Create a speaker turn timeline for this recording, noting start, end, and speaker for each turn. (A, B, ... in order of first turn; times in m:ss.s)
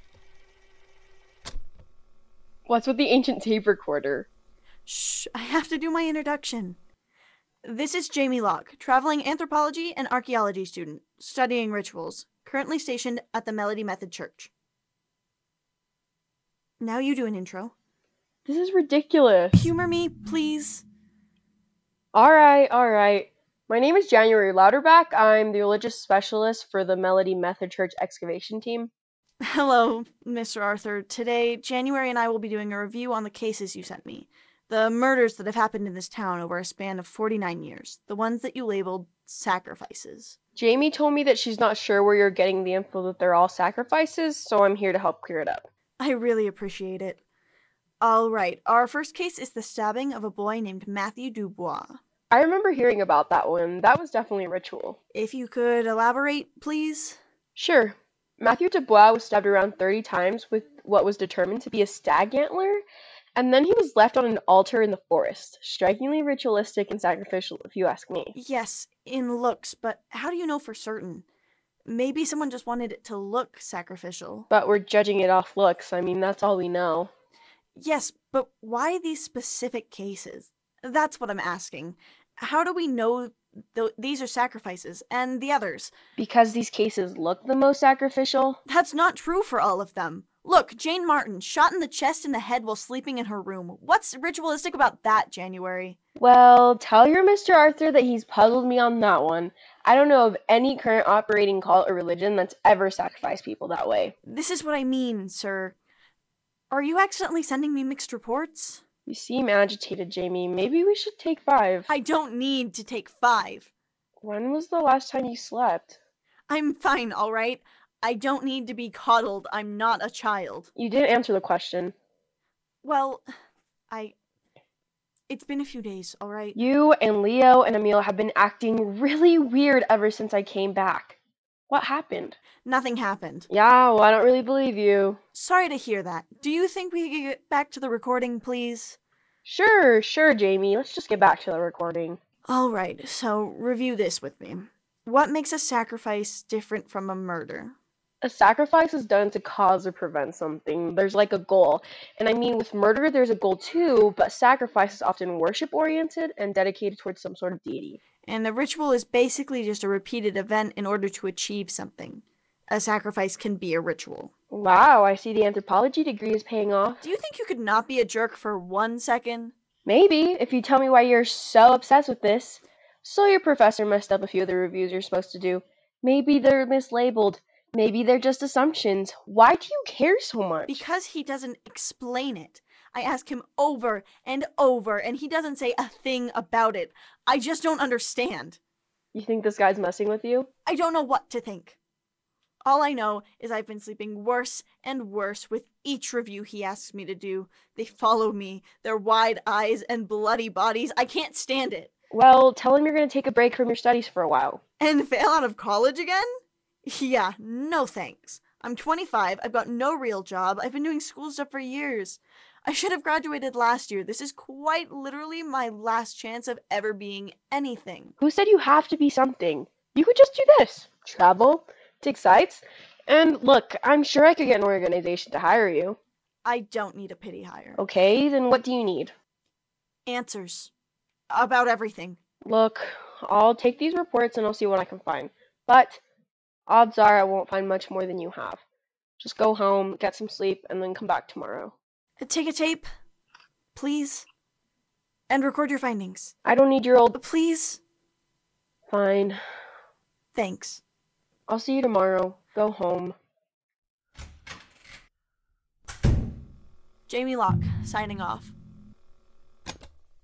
0:02.6-0:04.3 A
0:04.9-0:06.8 B
0:07.6-0:14.5 B
0:16.8-0:17.7 B
0:18.4-0:19.6 A
0:19.5-0:20.8 B
0:22.1-0:28.9 A
0:29.4-0:40.4 B
0:40.6-0:45.7 A
0:46.0-0:47.2 B
0:48.0-0:52.0 B
0:52.3-0:55.0 A
0:55.1-0:57.2 B
0:57.6-1:02.8 A
1:03.4-1:08.3 A
1:08.3-1:11.2 B
1:11.8-1:14.5 B
1:14.5-1:17.1 A
1:17.8-1:25.9 B
1:26.2-1:28.6 A
1:28.6-1:36.0 B
1:36.2-1:44.1 A
1:44.2-1:45.8 B
1:46.7-1:48.8 B
1:49.0-1:51.9 A
1:51.9-1:53.7 B
1:54.2-1:56.0 A
1:56.5-2:00.7 B
2:00.8-2:01.9 A
2:02.8-2:03.2 B
2:03.9-2:04.1 B
2:05.3-2:06.6 B
2:06.5-2:11.2 A
2:11.7-2:12.4 A
2:12.6-2:13.5 B
2:13.5-2:15.2 A
2:15.3-2:19.0 B
2:19.4-2:22.2 A
2:22.4-2:27.7 B
2:28.2-2:38.0 A
2:38.2-2:44.3 B
2:44.5-2:47.0 A
2:47.0-2:49.5 B
2:49.8-3:00.8 A
3:00.6-3:08.6 B
3:09.1-3:10.5 A
3:10.6-3:11.8 B
3:12.6-3:21.9 B
3:22.1-3:24.6 A
3:24.8-3:26.3 B
3:26.8-3:38.1 B
3:38.2-3:46.0 A
3:46.4-3:47.8 B
3:47.8-3:49.1 A
3:50.0-3:50.7 B
3:51.3-3:52.2 B
3:52.4-3:56.0 A
3:56.7-3:58.6 A
3:59.2-4:01.8 A
4:02.2-4:02.8 B
4:03.7-4:04.3 B
4:05.3-4:06.3 B
4:06.4-4:07.2 A
4:07.1-4:07.8 B
4:08.9-4:09.4 A
4:10.3-4:10.8 B
4:11.5-4:13.2 A
4:17.1-4:18.5 B